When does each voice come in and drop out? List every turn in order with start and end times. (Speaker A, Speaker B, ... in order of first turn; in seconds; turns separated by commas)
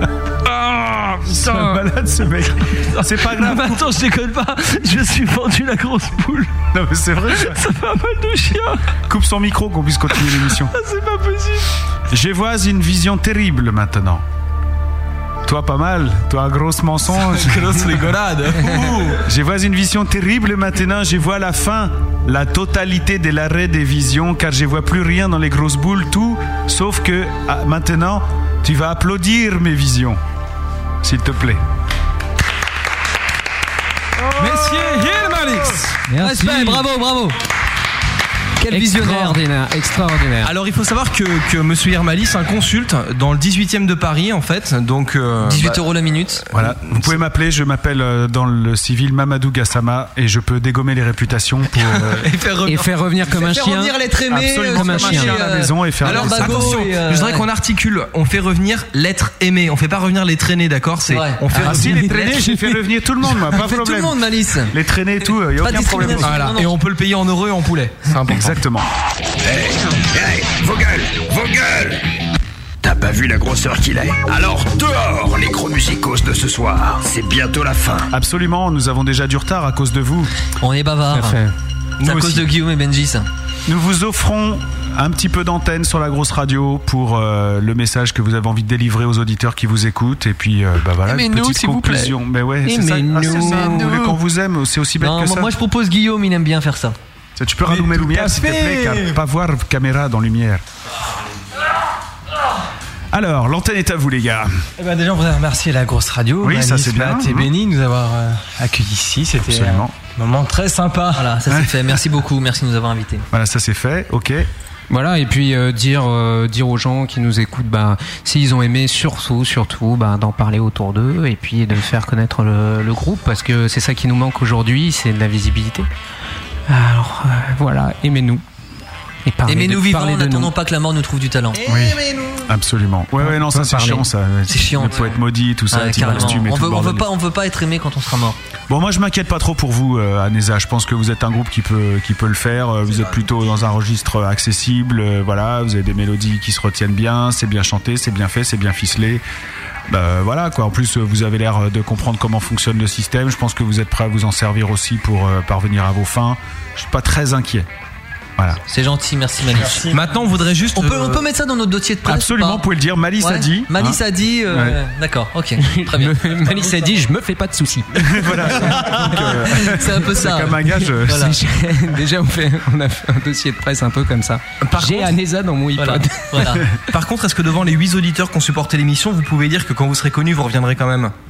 Speaker A: 0.5-1.9, Speaker B: 1.3-3.9, Speaker A: 2.9-6.5, Speaker B: 6.7-7.6, Speaker A: 7.3-8.8, Speaker B: 9.1-10.7, Speaker A: 10.2-11.7, Speaker B: 12.1-14.2, Speaker B: 15.4-18.1, Speaker A: 17.3-19.2, Speaker B: 19.2-30.2, Speaker B: 31.0-31.6, Speaker A: 34.4-36.0, Speaker C: 36.1-36.8, Speaker D: 36.2-37.4, Speaker D: 38.6-39.4, Speaker C: 38.7-40.5, Speaker A: 40.4-45.8, Speaker D: 45.4-46.6, Speaker B: 46.5-52.3, Speaker A: 52.0-52.3, Speaker D: 52.4-57.5, Speaker C: 52.6-54.0, Speaker B: 54.3-56.9, Speaker C: 54.6-55.4, Speaker A: 56.0-62.8, Speaker D: 61.1-61.8, Speaker B: 61.5-66.5, Speaker D: 63.5-64.8, Speaker D: 65.6-66.7, Speaker A: 66.2-68.6, Speaker B: 68.3-68.9, Speaker E: 69.4-72.1, Speaker E: 72.8-78.1, Speaker B: 78.1-80.3, Speaker D: 80.6-81.4, Speaker C: 81.1-81.5, Speaker A: 82.0-82.5, Speaker D: 82.0-83.3, Speaker B: 83.7-95.5, Speaker D: 91.1-92.1, Speaker C: 92.6-94.0, Speaker D: 93.2-94.1, Speaker D: 95.0-97.0, Speaker B: 97.4-100.6, Speaker F: 97.7-99.2, Speaker B: 103.1-104.6, Speaker F: 104.8-111.3, Speaker B: 106.4-107.5, Speaker B: 109.4-109.9, Speaker D: 111.2-113.3, Speaker B: 111.5-111.9, Speaker B: 113.3-114.5, Speaker C: 114.9-125.9, Speaker C: 126.7-128.4, Speaker C: 129.3-130.5, Speaker D: 129.5-131.6, Speaker F: 131.6-132.5, Speaker B: 131.7-137.1, Speaker C: 133.2-134.1, Speaker D: 134.5-135.1, Speaker D: 135.7-138.4, Speaker B: 138.7-149.2, Speaker B: 149.9-157.7, Speaker D: 158.7-159.8, Speaker F: 159.6-160.1, Speaker A: 159.9-161.2, Speaker D: 160.8-162.6, Speaker B: 162.1-164.8, Speaker D: 163.2-166.7, Speaker C: 165.6-169.0, Speaker B: 167.9-171.4, Speaker D: 168.6-171.4, Speaker C: 171.0-176.6, Speaker A: 174.6-175.1, Speaker D: 175.8-176.7, Speaker A: 176.8-181.1